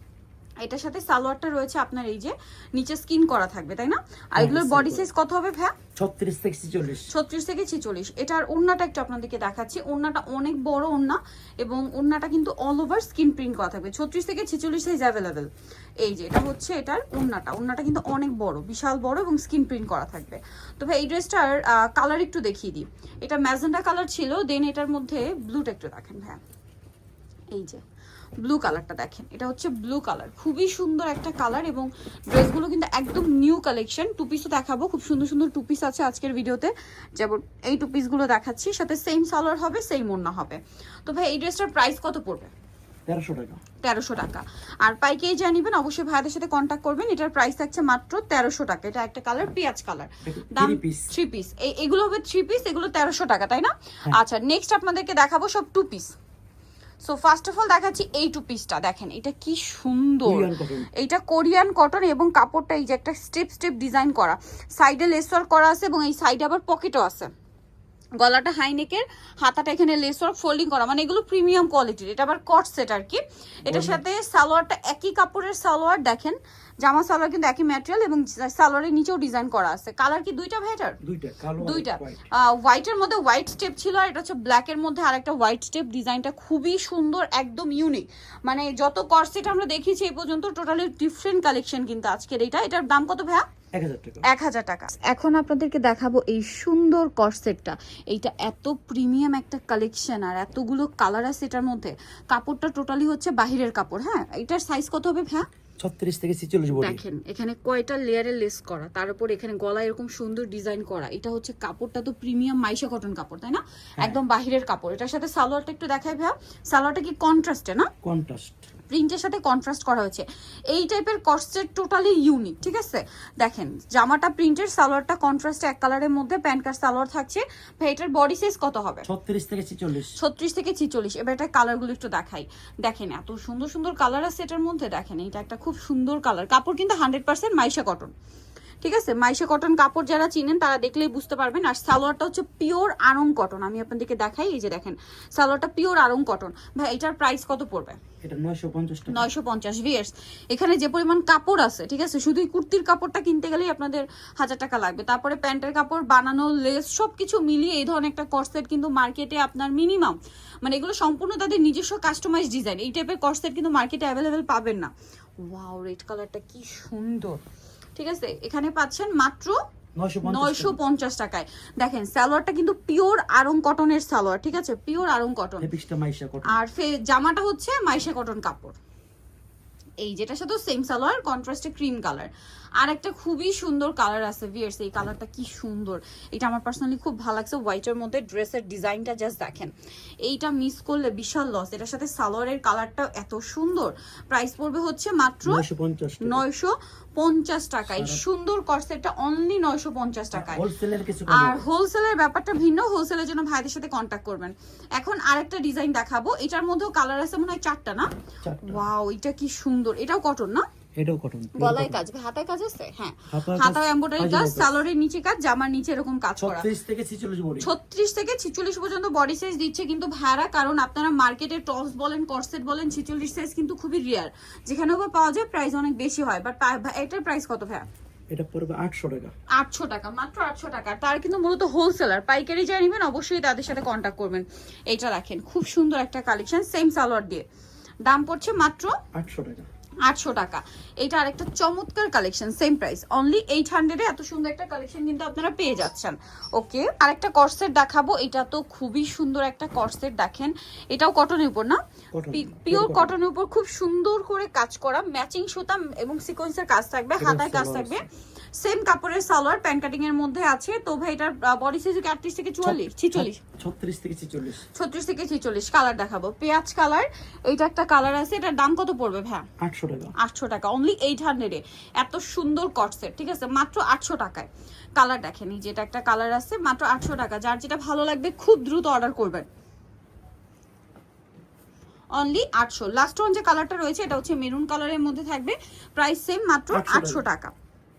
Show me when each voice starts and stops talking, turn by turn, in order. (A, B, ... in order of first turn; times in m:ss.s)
0:00.6-0:05.8 A
0:04.4-0:05.1 B
0:06.0-0:07.1 B
0:07.1-0:15.5 A
0:16.0-0:26.4 A
0:27.5-0:27.8 A
0:28.4-0:42.5 A
0:43.1-0:43.6 B
0:43.8-0:56.1 A
0:50.2-0:51.1 B
0:57.0-1:07.3 A
1:00.2-1:00.9 B
1:08.2-1:21.0 A
1:13.7-1:14.0 B
1:21.0-1:22.2 B
1:21.6-1:33.4 A
1:33.7-1:34.2 B
1:34.2-1:45.5 A
1:45.8-1:47.0 B
1:46.8-1:57.9 A
1:58.0-1:58.7 B
1:58.9-2:09.0 A
2:09.0-2:10.1 B
2:10.2-2:18.1 A
2:18.8-2:28.0 A
2:28.2-2:29.3 B
2:29.1-2:44.9 A
2:45.4-2:47.4 A
2:48.0-2:49.6 A
2:50.0-2:50.8 B
2:50.2-2:55.7 A
2:55.6-2:56.6 B
2:56.4-2:58.8 A
3:00.0-3:09.7 A
3:10.2-3:15.6 A
3:15.4-3:16.4 B
3:16.2-3:20.6 A
3:17.8-3:18.2 B
3:20.3-3:21.6 B
3:21.3-3:28.1 A
3:28.4-3:28.9 B
3:28.6-3:30.6 A
3:31.0-3:32.0 B
3:31.6-3:36.7 A
3:33.3-3:34.7 B
3:36.4-3:37.7 B
3:37.6-3:47.8 A
3:48.3-3:49.3 B
3:49.6-3:57.4 A
3:58.0-3:59.0 A
3:59.1-3:59.7 B
4:00.0-4:11.8 A
4:12.1-4:13.1 B
4:12.3-4:18.0 A
4:17.2-4:18.0 B
4:18.6-4:23.4 A
4:22.6-4:24.6 B
4:24.7-4:29.5 A
4:29.6-4:30.1 B
4:30.2-4:39.4 A
4:42.1-4:47.5 A
4:46.7-4:47.2 B